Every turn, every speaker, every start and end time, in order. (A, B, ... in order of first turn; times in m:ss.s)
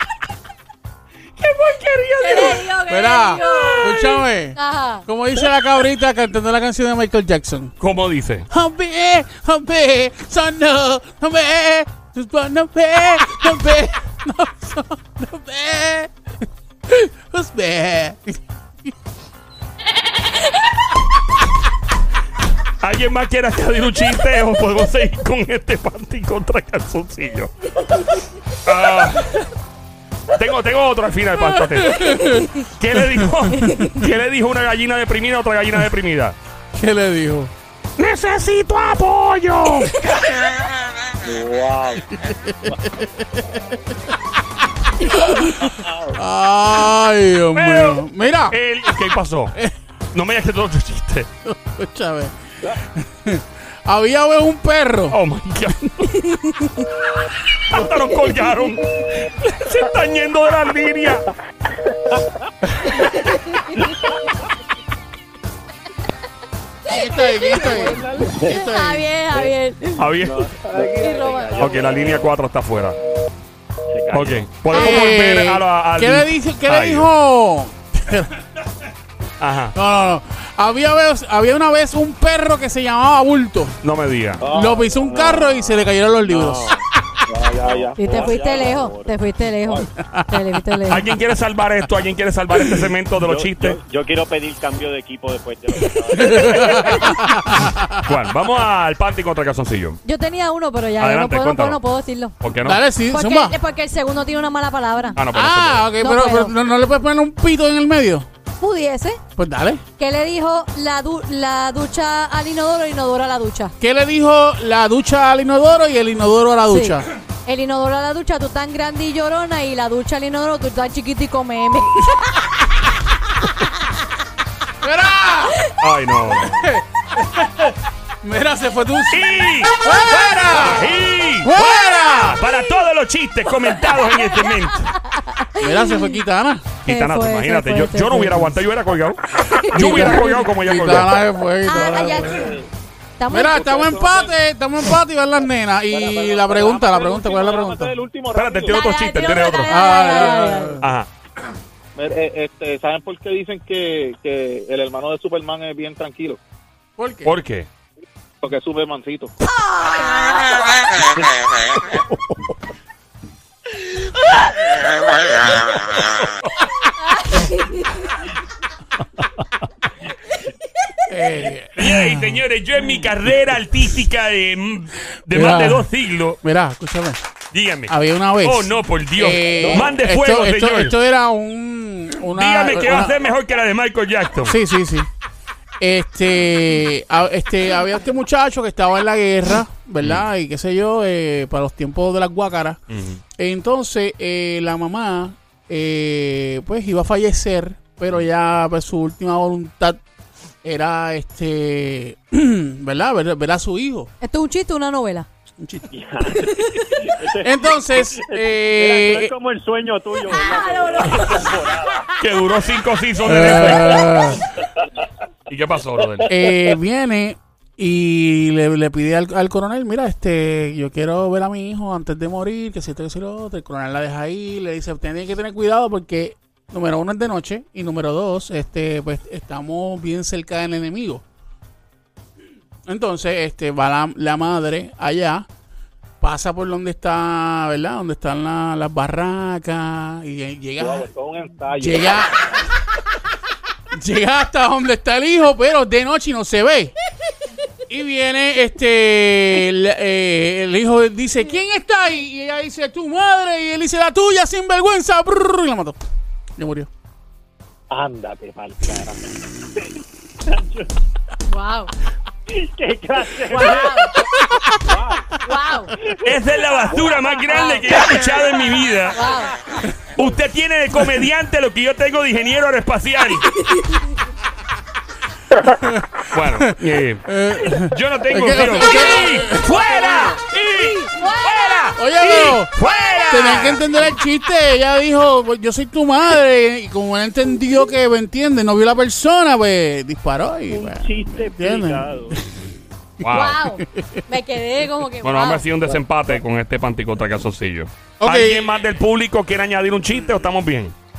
0:01.4-0:02.7 A
0:02.2-0:05.1 B
0:02.9-0:07.8 C
0:07.8-0:08.5 A
0:08.5-0:16.1 C
0:16.9-0:18.9 C
0:22.8-0:27.5 A
0:28.6-0:29.5 A
0:30.3-0:36.4 A
0:31.4-0:32.5 C
0:33.0-0:33.9 C
0:33.5-0:34.0 B
0:36.7-0:37.5 C
0:38.0-0:40.0 A
0:41.2-0:42.0 D
0:42.1-0:43.7 C
0:45.1-0:48.6 C
0:47.6-0:49.5 A
0:50.1-0:51.3 A
0:51.4-0:55.2 C
0:55.1-0:56.2 A
0:56.0-0:56.9 B
0:57.6-1:01.3 A
1:03.0-1:03.9 B
1:06.9-1:09.1 C
1:07.4-1:08.5 E
1:07.4-1:07.7 B
1:08.3-1:08.6 D
1:08.5-1:10.1 B
1:10.0-1:10.5 A
1:10.2-1:12.3 D
1:10.6-1:12.2 E
1:11.0-1:11.7 B
1:11.6-1:13.0 A
1:13.9-1:14.5 D
1:14.1-1:17.1 A
1:14.7-1:15.1 B
1:14.7-1:18.4 C
1:19.4-1:19.8 A
1:19.8-1:23.8 C
1:23.8-1:24.4 A
1:24.4-1:25.0 E
1:24.4-1:26.7 C
1:25.0-1:26.9 D
1:27.3-1:28.9 E
1:27.6-1:29.1 D
1:28.0-1:31.1 B
1:30.0-1:30.8 C
1:30.9-1:33.8 A
1:32.6-1:32.9 C
1:33.2-1:37.2 D
1:36.2-1:38.1 C
1:36.3-1:37.2 B
1:38.0-1:40.0 A
1:40.0-1:42.4 B
1:41.0-1:41.8 A
1:42.4-1:42.8 A
1:42.6-1:43.6 C
1:43.1-1:45.2 B
1:45.2-1:45.9 A
1:45.3-1:48.3 C
1:46.0-1:46.5 B
1:48.6-1:49.2 B
1:49.4-1:49.8 C
1:50.0-1:53.7 B
1:53.8-1:57.1 C
1:56.7-2:02.5 B
2:04.8-2:05.6 C
2:05.8-2:06.6 A
2:06.3-2:12.4 C
2:09.1-2:14.9 A
2:13.7-2:16.2 B
2:15.6-2:16.8 C
2:16.8-2:21.2 A
2:16.9-2:18.6 B
2:19.4-2:20.5 B
2:19.7-2:22.5 C
2:21.6-2:22.5 B
2:22.3-2:22.7 E
2:23.2-2:23.7 B
2:23.3-2:28.0 C
2:23.5-2:24.3 E
2:25.9-2:28.8 E
2:28.3-2:29.8 A
2:28.7-2:30.8 B
2:29.7-2:30.8 C
2:30.8-2:31.1 A
2:32.0-2:36.4 E
2:37.0-2:37.4 C
2:37.2-2:37.7 A
2:38.4-2:39.3 E
2:39.4-2:40.7 B
2:41.9-2:42.4 A
2:47.0-2:48.2 B
2:51.1-2:52.4 C
2:51.8-2:56.4 A
2:55.3-2:55.9 C
2:56.4-2:57.3 C
2:57.5-3:01.0 A
2:57.9-3:03.2 C
2:59.6-3:00.0 E
3:02.3-3:04.6 A
3:04.4-3:05.1 C
3:05.8-3:12.8 C
3:12.9-3:13.2 A
3:13.4-3:20.0 C
3:20.6-3:24.1 C
3:24.2-3:25.3 B
3:25.6-3:25.9 C
3:25.9-3:32.1 D
3:26.4-3:27.1 B
3:27.4-3:29.3 C
3:30.3-3:31.5 B
3:32.2-3:34.2 A
3:33.2-3:34.4 C
3:35.5-3:36.3 A
3:36.3-3:51.2 C
3:52.9-3:55.5 C
3:56.2-4:01.1 C
4:00.8-4:02.3 E
4:01.8-4:02.6 C
4:03.9-4:07.0 C
4:07.9-4:16.0 C
4:16.6-4:16.9 C
4:17.9-4:19.2 E
4:20.5-4:20.9 D
4:21.5-4:21.9 B
4:22.5-4:24.1 D
4:23.5-4:24.2 B
4:24.4-4:24.8 C
4:24.8-4:25.3 E
4:25.4-4:26.0 B
4:26.2-4:29.2 A
4:26.9-4:27.7 E
4:27.5-4:27.9 B
4:29.1-4:29.5 B
4:30.2-4:33.5 A
4:33.7-4:33.9 B
4:35.6-4:39.9 C
4:36.3-4:43.8 A
4:38.6-4:43.8 B
4:42.0-4:42.7 C
4:43.3-4:52.7 C
4:50.7-4:52.4 D
4:53.2-4:53.6 A
4:53.3-4:55.6 B
4:53.8-4:54.2 C
4:55.2-5:01.0 A
4:55.9-4:56.4 E
4:58.2-4:58.7 C